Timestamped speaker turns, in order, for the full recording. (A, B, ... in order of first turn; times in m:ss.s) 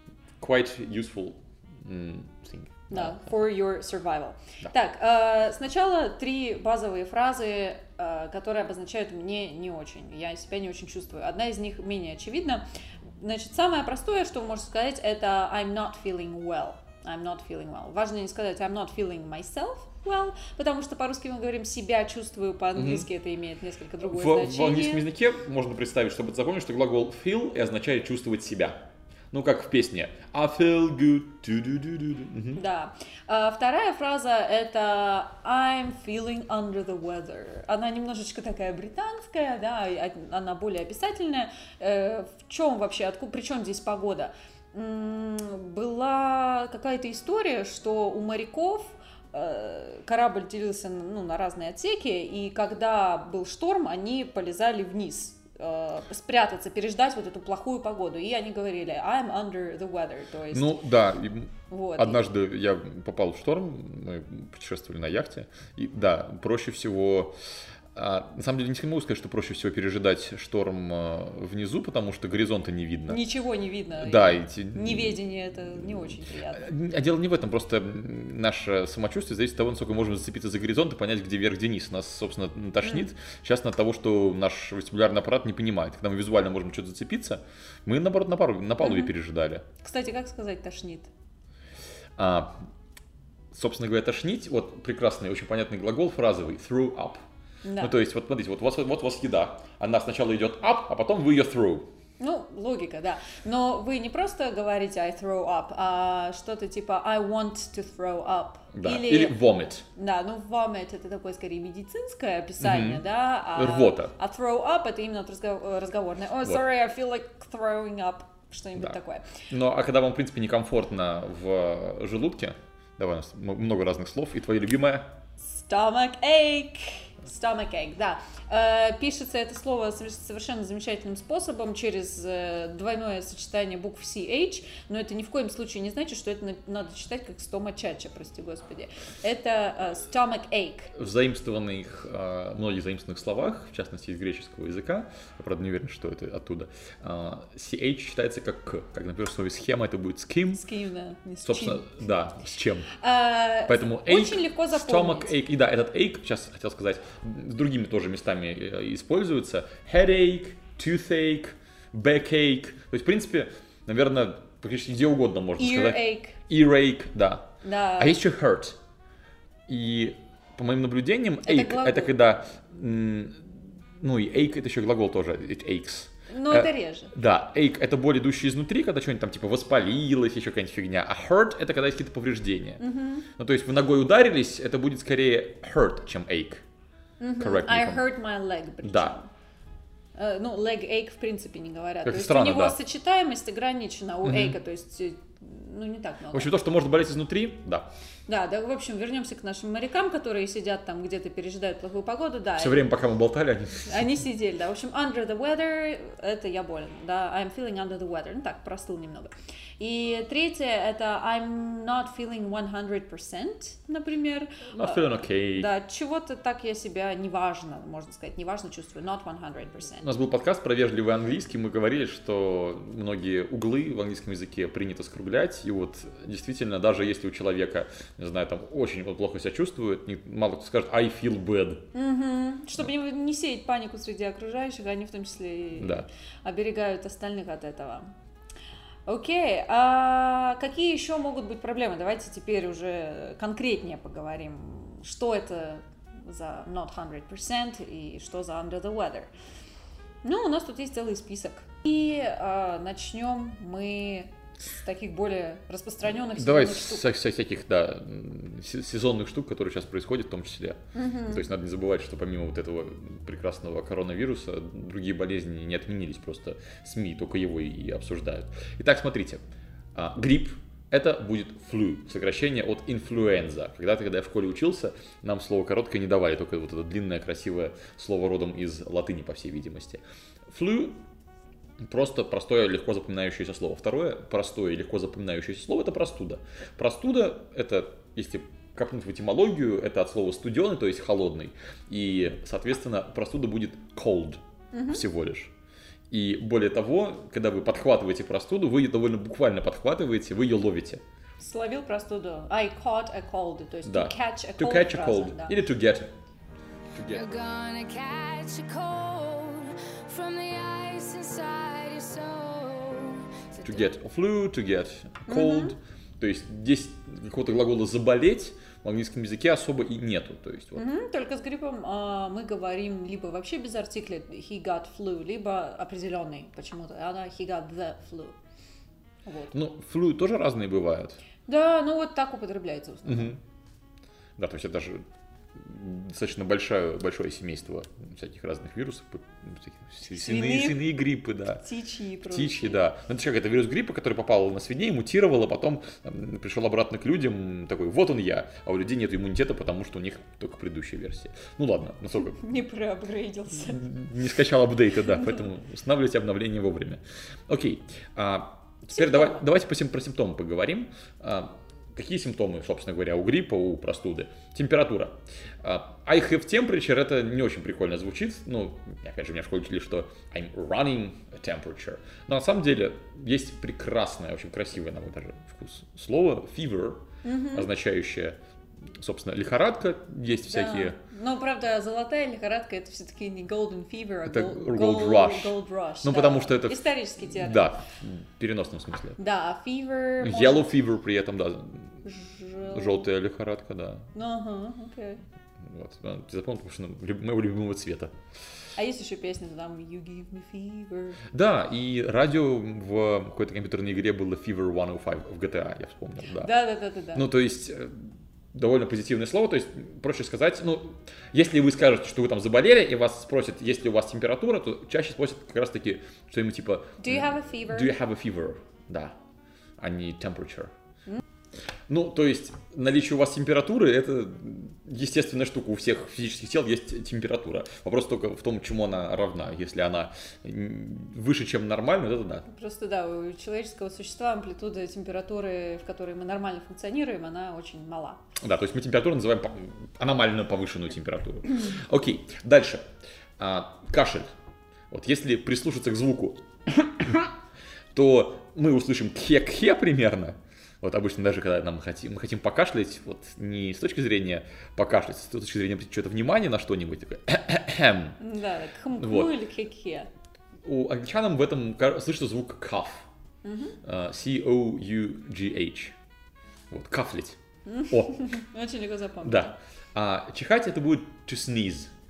0:00.4-0:03.5 A
0:02.9-0:12.6 B
0:13.2-0:25.0 B
0:22.8-0:23.1 A
0:24.0-0:28.8 A
0:29.3-0:32.6 A
0:32.6-1:00.8 B
1:00.5-1:07.3 A
1:01.7-1:02.2 B
1:07.9-1:13.2 A
1:13.1-1:16.7 B
1:14.0-1:15.2 A
1:15.7-1:29.6 A
1:22.8-1:23.1 B
1:28.8-1:29.1 B
1:29.8-1:31.1 B
1:32.2-1:32.5 A
1:33.5-1:37.2 A
1:37.6-1:38.0 B
1:37.8-1:41.9 A
1:42.2-1:49.4 B
1:48.7-1:49.8 A
1:49.9-1:59.3 B
1:52.6-1:54.1 A
1:59.5-2:05.1 A
2:05.4-2:20.9 B
2:20.9-2:30.6 A
2:30.5-2:32.1 B
2:31.4-2:32.9 A
2:33.0-2:35.3 B
2:33.7-2:48.8 A
2:45.6-2:46.4 B
2:47.6-2:48.2 B
2:49.7-3:02.8 A
2:51.4-2:52.2 B
2:56.3-2:57.1 B
3:02.8-3:03.3 B
3:03.4-3:06.6 A
3:07.2-3:09.3 B
3:07.4-3:08.1 A
3:08.8-3:09.2 A
3:10.1-3:16.5 B
3:12.0-3:12.8 A
3:14.2-3:14.6 A
3:16.3-3:17.9 A
3:18.3-3:22.9 B
3:22.6-3:24.2 A
3:23.8-3:40.1 B
3:34.7-3:35.7 A
3:40.0-3:51.8 A
3:51.9-3:58.1 B
3:55.8-3:56.1 A
3:59.0-4:09.3 B
4:10.2-4:17.0 B
4:16.1-4:29.4 A
4:20.9-4:21.4 B
4:29.9-4:41.0 A
4:41.8-4:55.5 A
4:54.7-4:55.0 B
4:56.1-5:01.0 A
5:01.4-5:05.6 B
5:03.8-5:06.1 A
5:06.9-5:07.3 A
5:07.1-5:13.6 C
5:13.6-5:20.8 A
5:15.3-5:15.8 B
5:20.8-5:28.4 B
5:29.2-5:29.6 B
5:29.5-5:31.2 A
5:31.4-5:33.4 B
5:33.0-5:33.4 A
5:34.4-5:41.6 A
5:40.0-5:40.8 B
5:41.6-5:42.8 B
5:42.2-5:52.5 A
5:52.2-5:53.8 B
5:53.5-6:18.4 A
5:55.0-5:55.5 B
5:58.9-5:59.5 B
6:17.2-6:17.7 B
6:19.0-6:21.0 A
6:20.5-6:27.7 B
6:24.2-6:29.2 A
6:29.2-6:30.7 B
6:30.2-6:32.0 A
6:32.0-6:33.0 B
6:32.6-6:34.1 A
6:34.1-6:35.2 B
6:35.6-6:38.1 A
6:38.8-6:41.2 B
6:41.3-6:46.5 A
6:46.3-6:47.3 B
6:47.1-6:59.1 A
6:57.0-6:57.9 B
6:59.8-7:00.7 A
7:01.9-7:12.4 A
7:12.4-7:18.2 B
7:18.4-7:22.9 A
7:23.4-7:24.2 A
7:24.9-7:27.3 A
7:27.9-7:38.2 A
7:38.2-7:40.1 B
7:39.0-7:39.4 A
7:40.6-7:43.1 A
7:43.4-7:43.8 B
7:43.8-7:45.9 A
7:46.7-7:47.4 A
7:47.6-7:49.5 B
7:47.9-7:48.2 A
7:49.2-7:51.9 A